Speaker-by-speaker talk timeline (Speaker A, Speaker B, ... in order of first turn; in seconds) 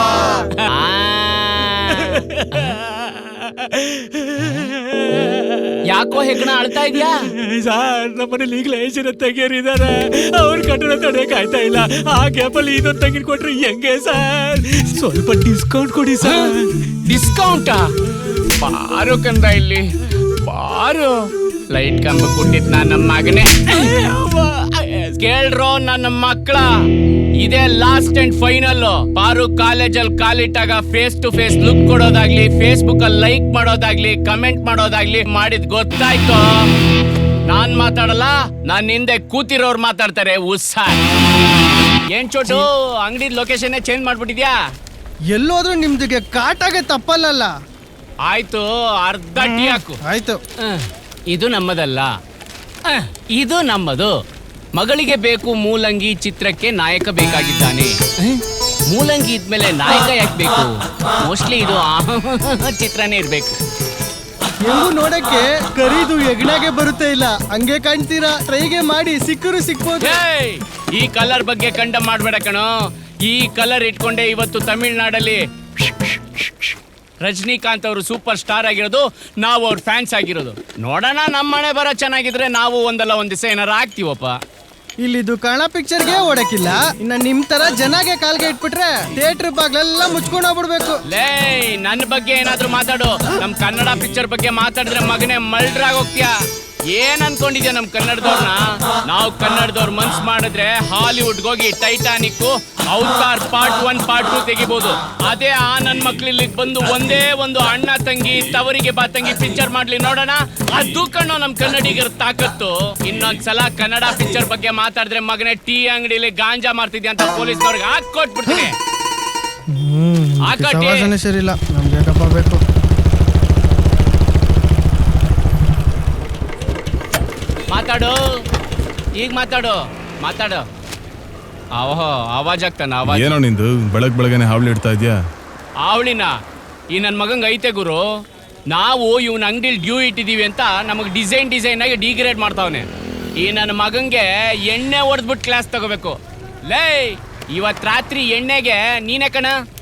Speaker A: 0.3-3.0, 5.8-7.3, 17.0-26.7, 27.4-36.6, 37.5-41.0, 42.1-44.6, 48.2-50.0, 50.6-52.1, 52.8-54.2, 54.7-63.6, 70.0-72.7, 73.2-84.4, 91.1-96.3, 96.9-118.7, 120.4-121.1, 127.7-128.2, 129.2-130.6, 131.8-133.3, 135.8-136.3, 136.9-138.1, 138.7-142.9, 143.4-149.6
Speaker B: 2.0-5.8, 7.0-17.0
Speaker C: 45.3-47.5, 49.4-50.4, 64.6-70.2, 85.0-91.0, 119.7-122.6
Speaker D: 133.0-135.2